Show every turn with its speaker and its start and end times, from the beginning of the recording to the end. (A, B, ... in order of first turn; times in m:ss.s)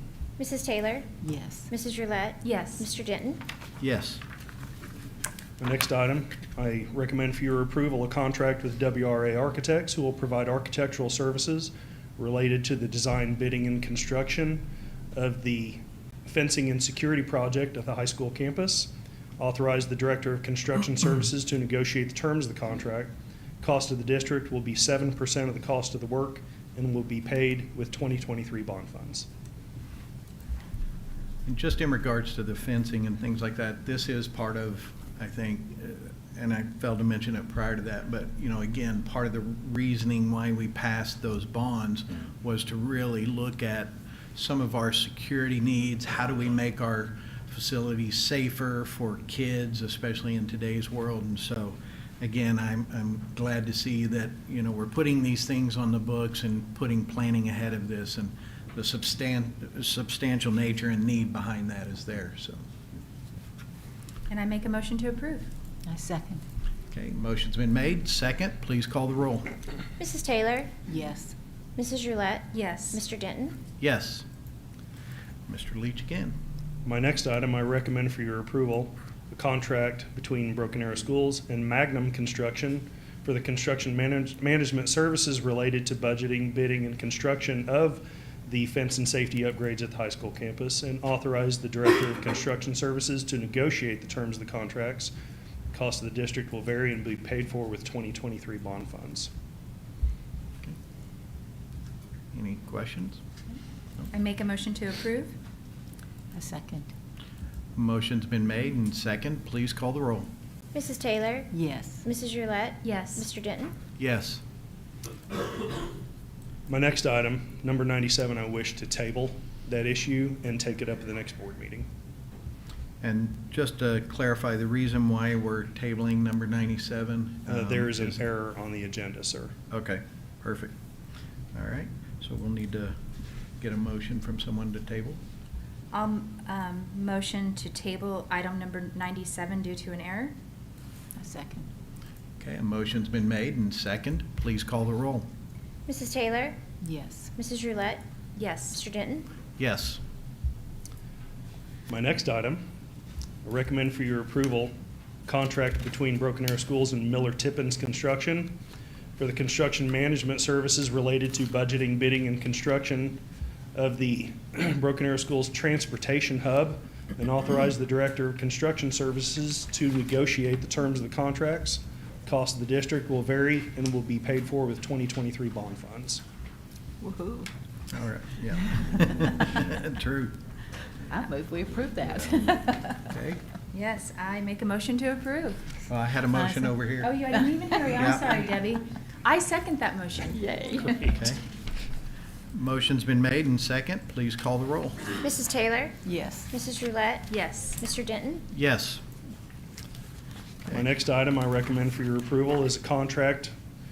0:00.4-0:01.1 A
0:01.2-0:01.7 B
0:01.7-0:03.4 A
0:02.4-0:02.9 C
0:03.8-0:04.2 D
0:05.6-0:29.3 E
0:31.5-1:02.6 D
1:04.3-1:05.5 C
1:05.9-1:06.4 B
1:06.9-1:09.5 D
1:10.0-1:10.8 A
1:10.9-1:11.4 B
1:11.8-1:13.6 A
1:12.5-1:13.0 C
1:13.8-1:14.2 D
1:15.5-1:16.4 D
1:16.8-1:35.1 E
1:35.7-1:39.3 E
1:42.3-1:43.2 D
1:44.1-1:45.4 C
1:46.3-1:46.9 B
1:47.8-1:50.3 D
1:50.7-1:51.5 A
1:51.5-1:52.0 B
1:52.0-1:53.8 A
1:52.8-1:53.3 C
1:54.0-1:54.4 D
1:56.7-2:01.9 E
2:03.0-2:08.2 D
2:07.5-2:09.5 E
2:09.7-2:10.7 D
2:11.5-2:13.0 D
2:13.6-2:15.2 D
2:15.9-2:20.4 C
2:21.2-2:21.7 B
2:22.4-2:25.3 D
2:25.9-2:26.6 A
2:26.8-2:27.3 B
2:27.4-2:28.0 A
2:28.4-2:28.8 C
2:28.7-2:29.3 A
2:29.6-2:30.0 D
2:31.9-2:32.6 E
2:33.4-2:34.7 E
2:35.3-2:38.6 E
2:39.2-2:43.2 E
2:43.8-2:56.2 E
2:57.0-2:57.5 B
2:57.9-3:00.4 D
3:01.1-3:03.0 B
3:03.0-3:03.4 D
3:03.7-3:05.8 C
3:05.9-3:07.2 D
3:06.3-3:06.7 B
3:07.0-3:10.4 C
3:08.0-3:08.3 D
3:10.3-3:11.1 B
3:10.9-3:11.4 D
3:12.5-3:15.0 D
3:15.2-3:16.0 A
3:16.0-3:16.5 B
3:16.5-3:18.4 A
3:17.3-3:17.8 C
3:18.5-3:19.0 D
3:20.7-3:23.5 E